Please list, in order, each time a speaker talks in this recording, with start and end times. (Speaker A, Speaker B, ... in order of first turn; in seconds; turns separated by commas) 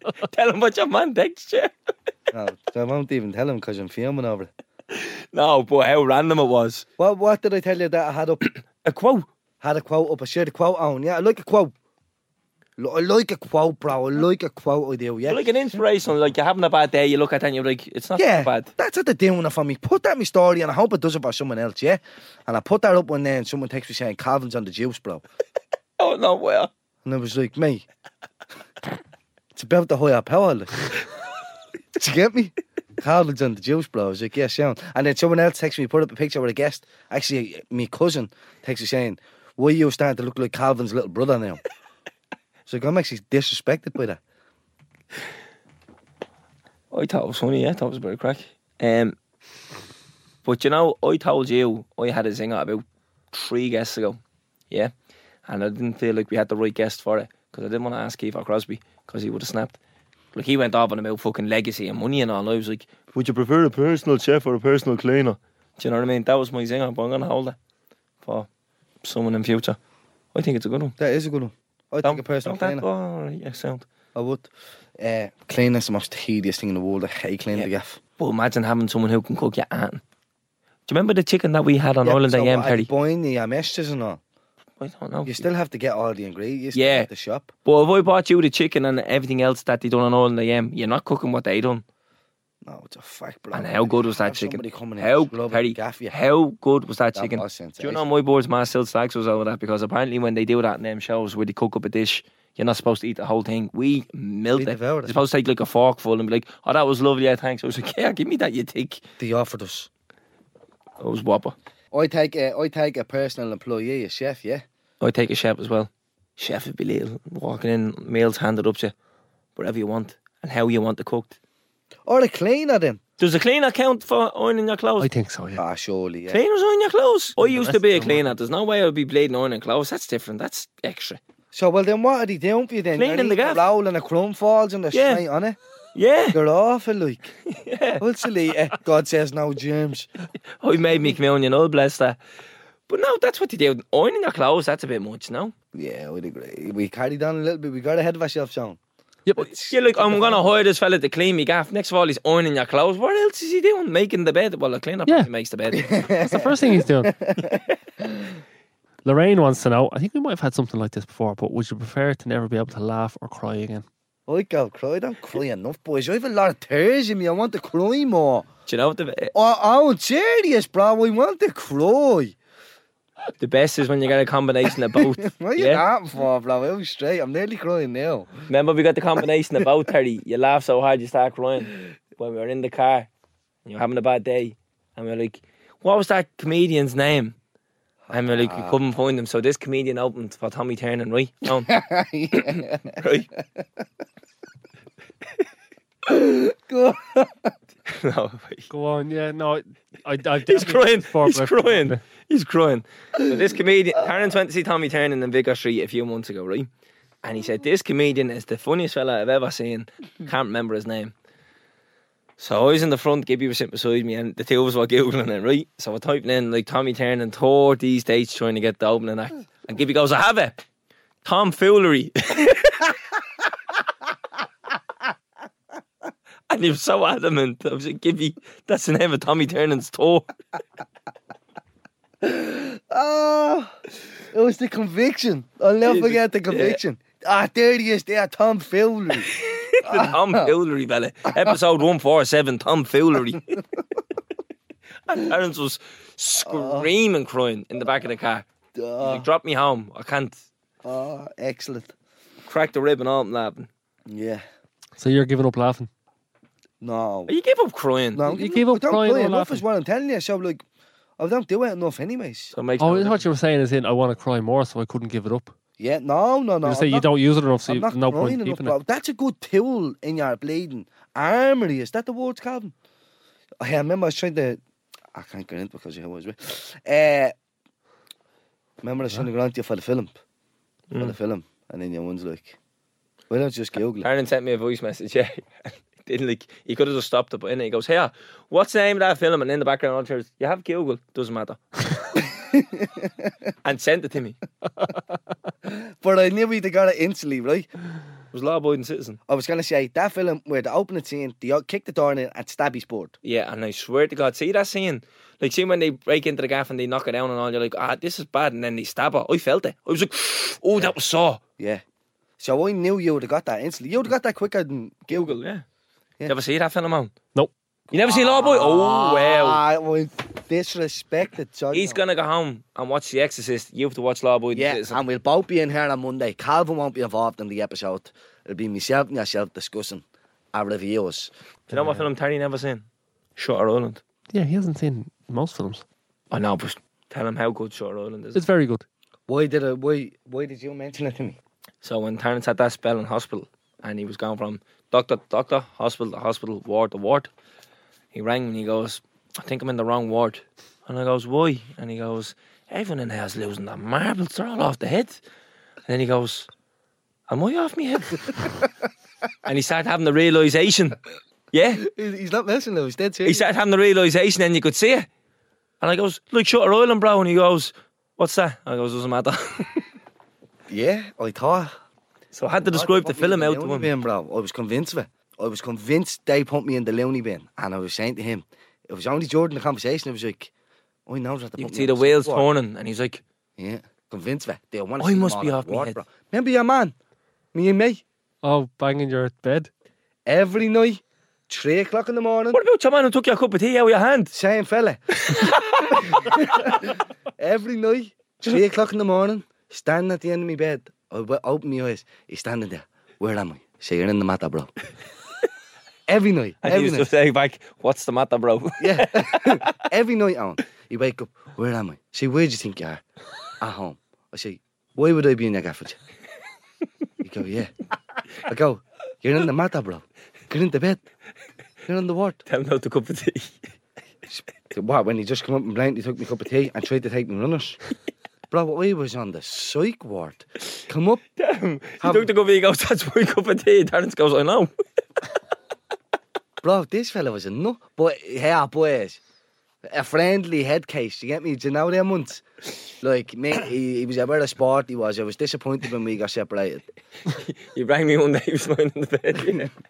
Speaker A: 0.2-1.7, Speaker B: 2.3-4.5, Speaker A: 4.9-6.8, Speaker B: 7.0-8.4, Speaker A: 8.4-9.2, Speaker B: 9.6-11.7, Speaker B: 12.8-15.5, Speaker A: 15.2-18.7, Speaker B: 18.1-25.2, Speaker A: 26.0-26.7, Speaker B: 27.0-27.9, Speaker B: 29.5-30.8, Speaker B: 31.9-41.6, Speaker B: 42.6-44.2, Speaker A: 46.9-49.1, Speaker A: 50.4-54.2, Speaker A: 55.5-59.8, Speaker A: 60.3-67.6, Speaker A: 68.2-68.5, Speaker A: 69.0-69.8, Speaker A: 70.3-70.9, Speaker B: 71.0-72.8, Speaker A: 72.0-73.9, Speaker B: 74.1-78.0, Speaker A: 77.5-80.0, Speaker A: 80.9-82.9, Speaker B: 82.0-84.2, Speaker A: 84.8-85.5, Speaker B: 85.2-87.5, Speaker A: 86.7-87.1, Speaker A: 87.6-91.8, Speaker B: 92.6-96.2, Speaker A: 93.5-109.0, Speaker B: 97.1-98.0, Speaker B: 104.5-105.2, Speaker B: 109.2-109.9, Speaker A: 111.0-111.5, Speaker B: 111.9-114.6, Speaker A: 115.0-118.9, Speaker A: 119.6-121.4, Speaker B: 122.0-123.0, Speaker A: 123.2-125.1, Speaker C: 125.0-125.6, Speaker B: 125.5-126.4, Speaker A: 126.3-131.2, Speaker C: 127.4-128.3, Speaker B: 131.5-135.6, Speaker A: 132.9-133.7, Speaker A: 134.9-135.2, Speaker A: 135.9-136.4, Speaker B: 136.3-137.3, Speaker A: 137.5-138.0, Speaker B: 138.0-140.1, Speaker A: 140.6-142.2, Speaker A: 142.9-145.5, Speaker B: 145.7-148.8, Speaker C: 149.2-149.5, Speaker B: 149.3-150.5, Speaker A: 149.4-155.8, Speaker B: 155.7-157.6, Speaker C: 156.2-157.2, Speaker C: 159.0-163.8, Speaker B: 164.3-168.5, Speaker A: 168.7-169.3, Speaker B: 169.3-172.3, Speaker A: 173.4-175.8, Speaker B: 174.9-178.3, Speaker A: 178.5-183.1, Speaker A: 183.7-187.3, Speaker B: 188.1-188.8, Speaker A: 188.1-191.7, Speaker B: 191.7-193.0, Speaker A: 192.3-193.3, Speaker B: 196.1-197.5, Speaker A: 197.9-198.7, Speaker C: 198.7-202.0, Speaker A: 200.5-206.7, Speaker A: 207.2-211.1, Speaker A: 212.4-220.6, Speaker A: 221.2-223.0, Speaker A: 226.5-230.3, Speaker B: 232.2-233.8, Speaker B: 234.3-239.3, Speaker A: 235.8-236.8, Speaker A: 239.1-243.6, Speaker B: 239.8-240.5, Speaker A: 245.1-248.5, Speaker B: 246.4-246.9, Speaker B: 248.8-249.2, Speaker A: 249.0-250.4, Speaker B: 250.8-251.9, Speaker A: 252.5-253.7, Speaker B: 254.1-254.4, Speaker C: 255.0-255.9, Speaker B: 256.8-257.3, Speaker A: 257.3-258.2, Speaker B: 258.1-260.6, Speaker C: 258.2-259.6, Speaker B: 261.2-262.5, Speaker A: 262.5-263.2, Speaker C: 262.8-265.5, Speaker B: 265.8-267.1, Speaker C: 266.6-268.8, Speaker B: 267.6-272.7, Speaker B: 273.6-274.6, Speaker B: 275.1-277.3, Speaker B: 278.8-280.2, Speaker A: 280.9-281.1, Speaker B: 281.0-282.6, Speaker B: 283.3-284.1, Speaker A: 284.0-291.8, Speaker B: 292.4-293.3, Speaker A: 293.6-294.4, Speaker B: 295.6-297.7, Speaker A: 298.3-299.2, Speaker B: 299.3-303.1, Speaker A: 303.2-311.4, Speaker B: 312.4-315.3, Speaker A: 315.1-315.6, Speaker A: 316.3-317.1, Speaker B: 317.9-322.0, Speaker A: 317.9-319.6, Speaker A: 321.7-325.0, Speaker B: 324.5-331.3, Speaker C: 331.7-332.1, Speaker A: 331.7-332.9, Speaker A: 333.4-334.0, Speaker C: 334.3-335.8, Speaker A: 336.3-338.4, Speaker C: 338.3-338.9, Speaker B: 339.3-341.4, Speaker A: 341.8-347.3, Speaker A: 348.1-355.2, Speaker A: 355.9-356.5, Speaker A: 357.3-358.6, Speaker A: 359.4-361.0, Speaker A: 361.5-361.8, Speaker B: 361.8-363.4, Speaker A: 363.2-365.1, Speaker A: 365.8-369.9, Speaker B: 370.7-371.7, Speaker A: 372.3-373.9, Speaker B: 372.7-380.5, Speaker B: 381.1-382.5, Speaker A: 381.6-383.2, Speaker B: 383.6-386.9, Speaker A: 385.0-386.0, Speaker B: 387.5-388.0, Speaker C: 388.4-389.7, Speaker B: 390.2-392.6, Speaker A: 392.5-394.3, Speaker B: 394.3-404.7, Speaker A: 395.2-396.8, Speaker B: 406.1-407.1, Speaker A: 406.6-409.7, Speaker B: 408.8-413.0, Speaker B: 413.6-416.0, Speaker B: 417.2-417.7, Speaker B: 418.4-421.0, Speaker B: 421.9-422.4, Speaker A: 422.5-423.5, Speaker B: 424.3-427.8, Speaker B: 428.5-431.2, Speaker A: 431.4-434.7, Speaker B: 432.0-432.3, Speaker B: 436.6-439.2, Speaker B: 439.9-442.4, Speaker B: 443.0-446.8, Speaker A: 447.3-449.7